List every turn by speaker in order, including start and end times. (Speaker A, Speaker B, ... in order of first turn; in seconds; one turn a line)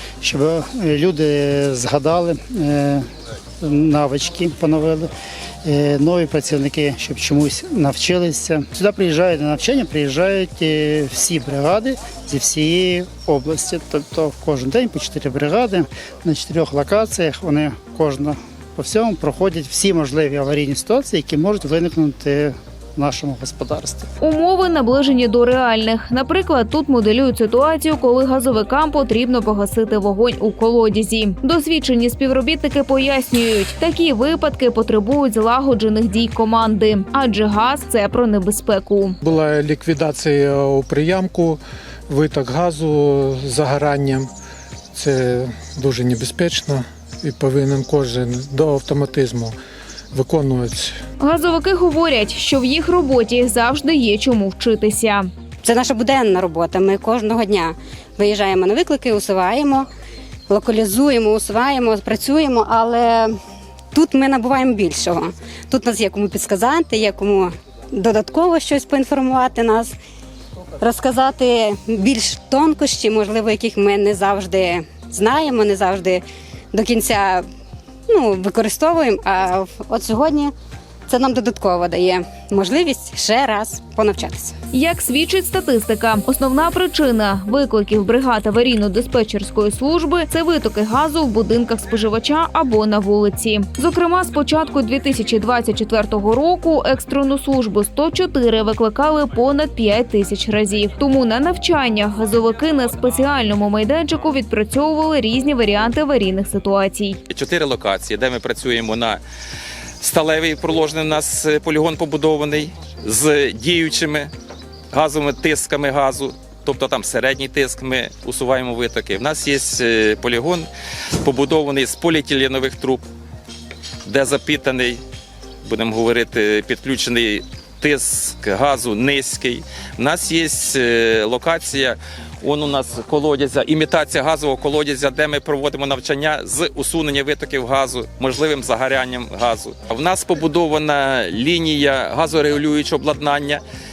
Speaker A: 0.2-3.0
Speaker A: 3.6-5.1
Speaker A: 5.6-24.1
Speaker B: 24.2-39.2
Speaker C: 39.2-44.3
Speaker C: 44.9-49.6
Speaker C: 50.1-51.0
Speaker B: 51.2-55.3
Speaker D: 55.6-59.9
Speaker D: 60.5-63.4
Speaker D: 63.9-70.0
Speaker D: 70.8-77.5
Speaker D: 78.1-80.5
Speaker D: 81.1-84.5
Speaker B: 84.7-107.2
Speaker E: 107.3-109.2
Speaker E: 110.0-114.3
Speaker E: 114.9-120.7
Speaker E: 121.2-123.0
Speaker E: 124.1-125.0
Speaker E: 125.7-143.6